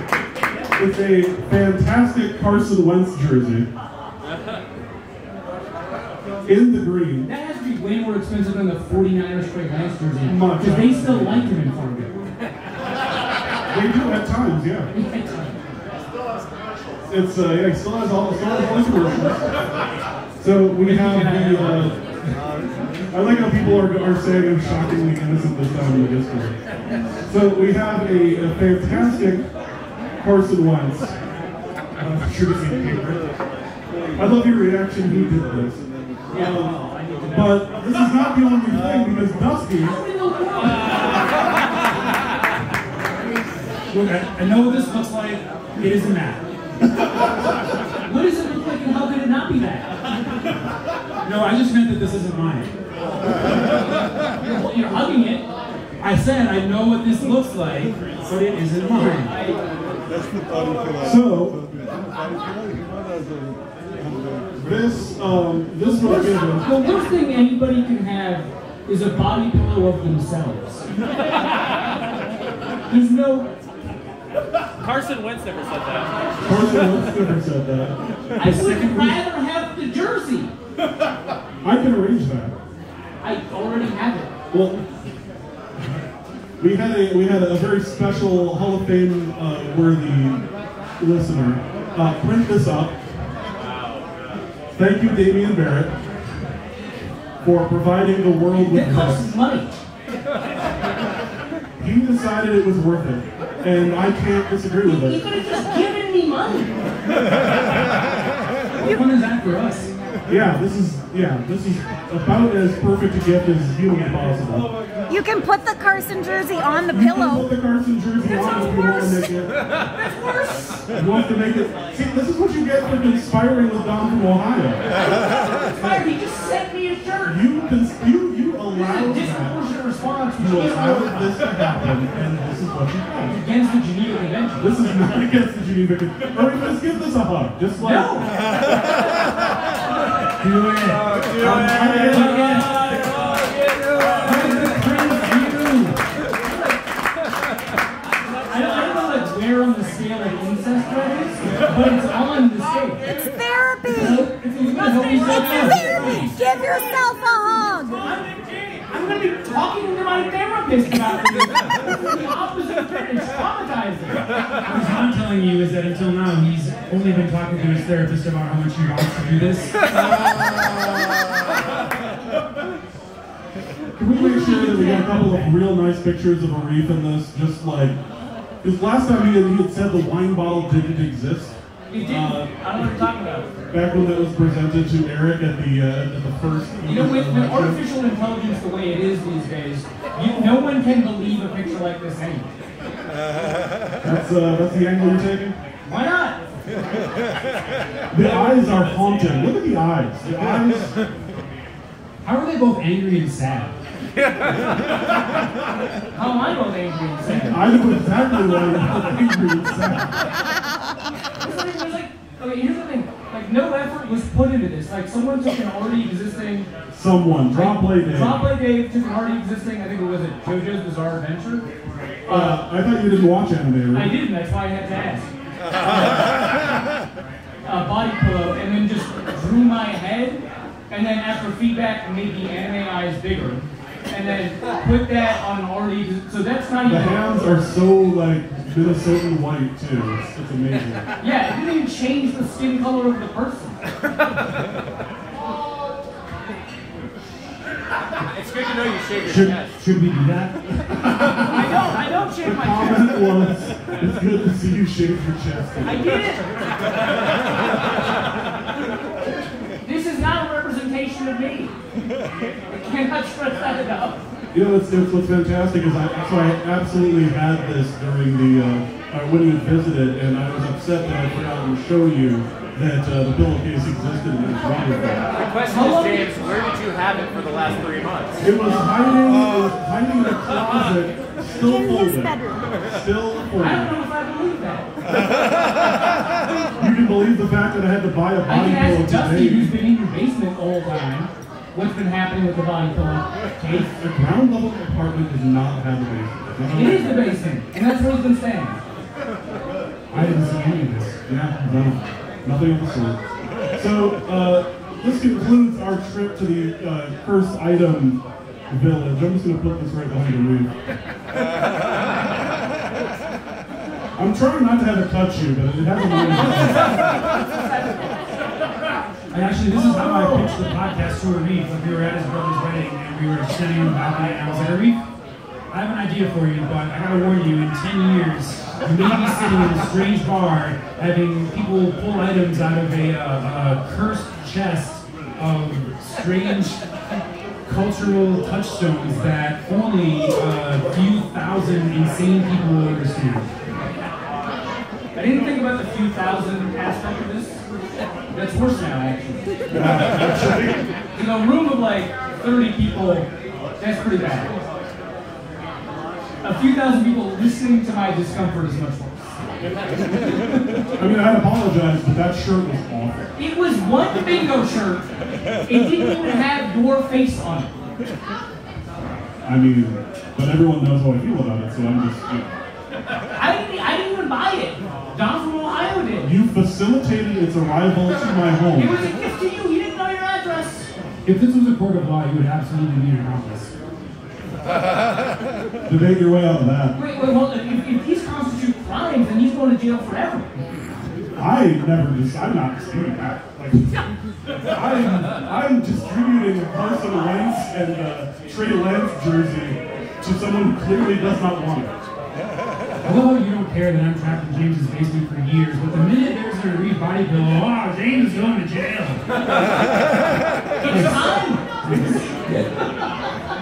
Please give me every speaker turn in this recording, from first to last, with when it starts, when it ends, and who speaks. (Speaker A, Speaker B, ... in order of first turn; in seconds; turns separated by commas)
Speaker A: 0.8-3.7, Speaker A: 6.4-7.3, Speaker B: 7.2-12.2, Speaker A: 10.2-11.5, Speaker A: 13.7-14.9, Speaker B: 14.9-15.6, Speaker A: 17.1-19.6, Speaker A: 20.4-22.0, Speaker B: 20.8-22.0, Speaker A: 23.1-26.5, Speaker A: 27.3-29.5, Speaker A: 30.2-31.1, Speaker A: 32.0-33.2, Speaker A: 34.2-40.0, Speaker B: 36.3-37.7, Speaker B: 39.8-41.5, Speaker C: 43.9-46.4, Speaker B: 48.0-49.9, Speaker C: 51.2-52.7, Speaker B: 54.4-55.5, Speaker C: 56.0-59.4, Speaker B: 59.1-59.6, Speaker A: 61.0-61.6, Speaker A: 64.6-66.7, Speaker B: 65.8-70.9, Speaker B: 72.9-73.5, Speaker D: 74.8-76.1, Speaker B: 76.2-76.9, Speaker A: 76.4-78.0, Speaker B: 78.4-80.5, Speaker C: 78.4-79.2, Speaker A: 81.6-82.6, Speaker B: 83.2-84.3, Speaker A: 84.5-84.8, Speaker A: 86.6-90.4, Speaker A: 91.0-93.0, Speaker A: 94.7-96.0, Speaker A: 97.4-99.3, Speaker B: 98.5-99.7, Speaker A: 101.8-105.2, Speaker B: 104.8-106.8, Speaker C: 108.8-109.9, Speaker A: 110.3-114.7, Speaker E: 115.1-117.5, Speaker A: 116.9-119.5, Speaker B: 118.3-119.2, Speaker B: 119.8-120.9, Speaker A: 120.9-124.8, Speaker B: 125.1-127.4, Speaker A: 127.2-129.6, Speaker B: 128.7-131.4, Speaker A: 130.4-133.4, Speaker B: 133.3-134.7, Speaker A: 134.6-138.3, Speaker B: 137.8-138.3, Speaker C: 140.4-141.3, Speaker A: 141.3-142.4, Speaker B: 141.9-143.1, Speaker C: 142.0-142.8, Speaker C: 144.2-146.0, Speaker B: 146.5-146.7, Speaker B: 148.5-153.1, Speaker E: 153.1-158.0, Speaker B: 153.8-156.3, Speaker B: 158.0-164.2, Speaker C: 164.7-169.8, Speaker A: 174.0-178.0, Speaker E: 174.2-175.1, Speaker C: 174.5-175.6, Speaker A: 178.6-182.5, Speaker B: 181.9-183.5, Speaker A: 183.7-187.8, Speaker B: 186.8-192.5, Speaker A: 194.0-195.6, Speaker B: 195.8-196.4, Speaker A: 198.1-201.0, Speaker C: 202.2-203.7, Speaker B: 206.1-207.7, Speaker A: 207.2-210.2, Speaker B: 211.4-216.7, Speaker A: 216.9-218.4, Speaker B: 217.5-221.7, Speaker B: 222.3-222.6, Speaker A: 222.3-224.2, Speaker B: 223.9-225.3, Speaker B: 227.7-237.2, Speaker A: 236.8-241.1, Speaker B: 241.2-243.8, Speaker D: 248.3-249.7, Speaker C: 249.2-251.0, Speaker A: 251.2-251.6, Speaker B: 251.5-253.3, Speaker A: 252.4-256.2, Speaker B: 255.8-256.5, Speaker B: 259.8-261.8, Speaker B: 262.7-264.2, Speaker A: 264.5-275.3, Speaker D: 275.4-278.4, Speaker B: 275.7-276.4, Speaker A: 278.4-284.0, Speaker E: 281.6-282.7, Speaker B: 283.6-284.9, Speaker A: 286.8-289.8, Speaker B: 288.4-293.9, Speaker A: 293.7-297.2, Speaker B: 296.7-298.8, Speaker C: 300.1-301.2, Speaker A: 301.3-303.2, Speaker A: 303.8-310.7, Speaker A: 314.2-317.1, Speaker C: 319.3-325.0, Speaker C: 325.7-336.8, Speaker C: 337.6-343.5, Speaker B: 345.1-347.6, Speaker B: 348.3-349.5, Speaker A: 349.7-350.8, Speaker B: 351.1-354.5, Speaker B: 356.4-359.4, Speaker A: 360.9-363.3, Speaker B: 363.4-365.1, Speaker B: 365.6-367.7, Speaker A: 369.4-372.6, Speaker B: 373.3-376.3, Speaker A: 376.2-379.0, Speaker B: 378.7-380.9, Speaker C: 381.2-383.7, Speaker A: 385.9-387.0, Speaker B: 386.9-390.5, Speaker A: 391.4-393.9, Speaker A: 394.6-401.9, Speaker C: 403.0-409.3, Speaker C: 410.8-412.6, Speaker B: 410.8-413.3